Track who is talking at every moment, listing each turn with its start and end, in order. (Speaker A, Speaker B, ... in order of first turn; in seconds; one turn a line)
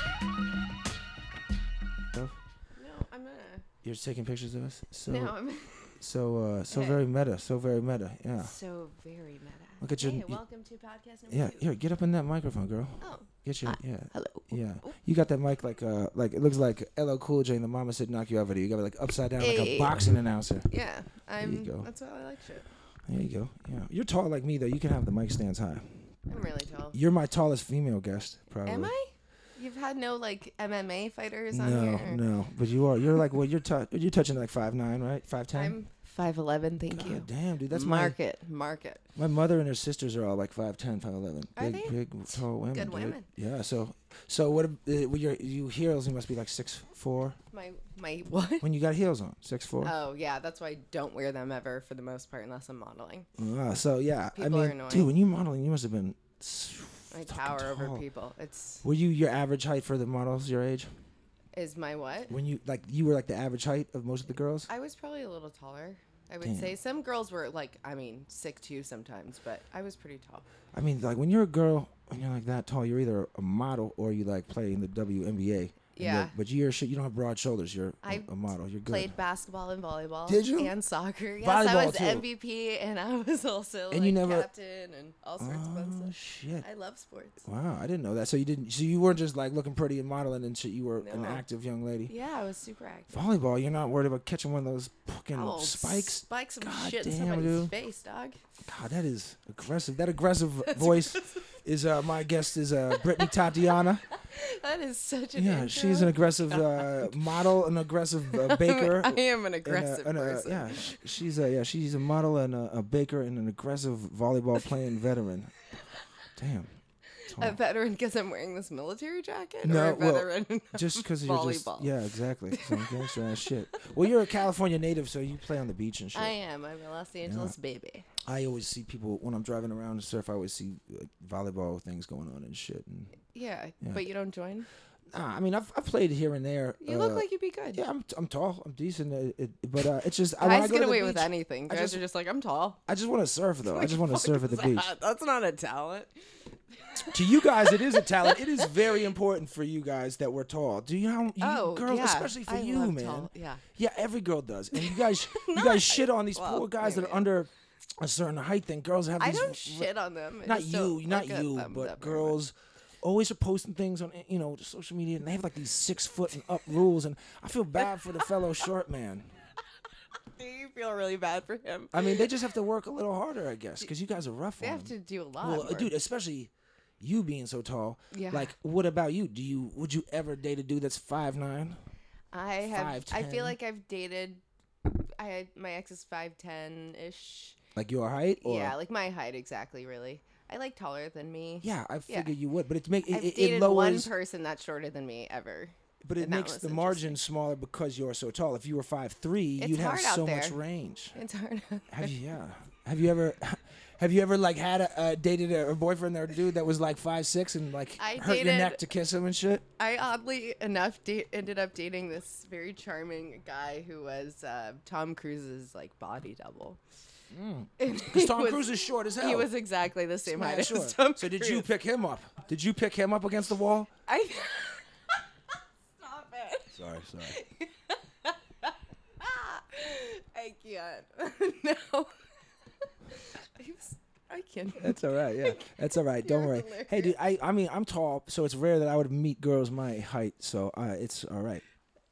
Speaker A: 2.8-3.6
Speaker B: 3.8-5.3
Speaker A: 5.1-6.0
Speaker B: 6.0-8.5
Speaker A: 6.7-7.0
Speaker A: 8.4-11.7
Speaker B: 9.8-10.4
Speaker B: 11.3-20.7
Speaker A: 13.0-15.0
Speaker A: 19.4-20.0
Speaker A: 20.7-22.7
Speaker B: 21.4-21.9
Speaker B: 23.1-25.9
Speaker A: 26.3-27.0
Speaker B: 26.9-28.9
Speaker A: 28.7-32.2
Speaker B: 31.5-35.8
Speaker A: 35.5-39.0
Speaker B: 36.9-38.2
Speaker B: 39.2-47.4
Speaker A: 41.6-43.3
Speaker A: 47.5-48.7
Speaker B: 48.6-49.9
Speaker A: 49.8-53.3
Speaker B: 53.4-58.0
Speaker A: 54.4-55.1
Speaker A: 57.1-58.8
Speaker B: 58.8-60.9
Speaker A: 61.5-62.4
Speaker B: 62.3-64.7
Speaker A: 64.7-70.5
Speaker B: 66.4-66.8
Speaker B: 70.7-79.2
Speaker A: 76.0-76.3
Speaker A: 78.0-78.3
Speaker A: 78.9-87.5
Speaker B: 80.3-80.7
Speaker B: 81.4-82.2
Speaker B: 83.9-84.5
Speaker B: 85.4-86.7
Speaker B: 87.5-92.1
Speaker A: 91.0-91.5
Speaker A: 92.1-93.2
Speaker B: 93.1-97.7
Speaker A: 95.3-98.4
Speaker B: 98.7-104.0
Speaker A: 100.7-101.5
Speaker A: 103.0-107.2
Speaker B: 105.3-115.5
Speaker A: 108.3-111.0
Speaker B: 116.4-116.7
Speaker A: 117.2-121.9
Speaker B: 117.3-117.6
Speaker B: 119.6-126.3
Speaker A: 122.5-123.9
Speaker A: 126.1-128.1
Speaker B: 127.3-127.5
Speaker B: 128.2-133.2
Speaker A: 133.3-134.7
Speaker B: 135.1-142.0
Speaker A: 136.8-137.8
Speaker A: 140.4-142.8
Speaker B: 142.9-144.9
Speaker A: 143.7-146.2
Speaker A: 146.8-148.7
Speaker B: 147.1-159.9
Speaker A: 151.4-153.6
Speaker A: 154.7-157.3
Speaker A: 159.2-162.4
Speaker B: 160.4-169.3
Speaker A: 167.9-168.3
Speaker A: 170.3-172.3
Speaker B: 171.9-181.8
Speaker A: 174.6-175.9
Speaker A: 178.1-178.5
Speaker A: 182.3-187.6
Speaker B: 182.7-183.6
Speaker B: 187.8-188.8
Speaker A: 188.4-192.3
Speaker B: 191.6-194.1
Speaker A: 193.1-197.2
Speaker B: 196.0-201.2
Speaker A: 199.6-200.6
Speaker A: 201.2-202.1
Speaker B: 201.9-209.6
Speaker A: 208.0-208.8
Speaker A: 209.8-216.8
Speaker B: 217.3-219.5
Speaker A: 217.8-221.7
Speaker B: 220.3-223.9
Speaker A: 224.1-225.2
Speaker A: 226.0-226.8
Speaker B: 226.7-227.4
Speaker A: 227.3-232.1
Speaker A: 233.1-237.1
Speaker B: 234.8-241.6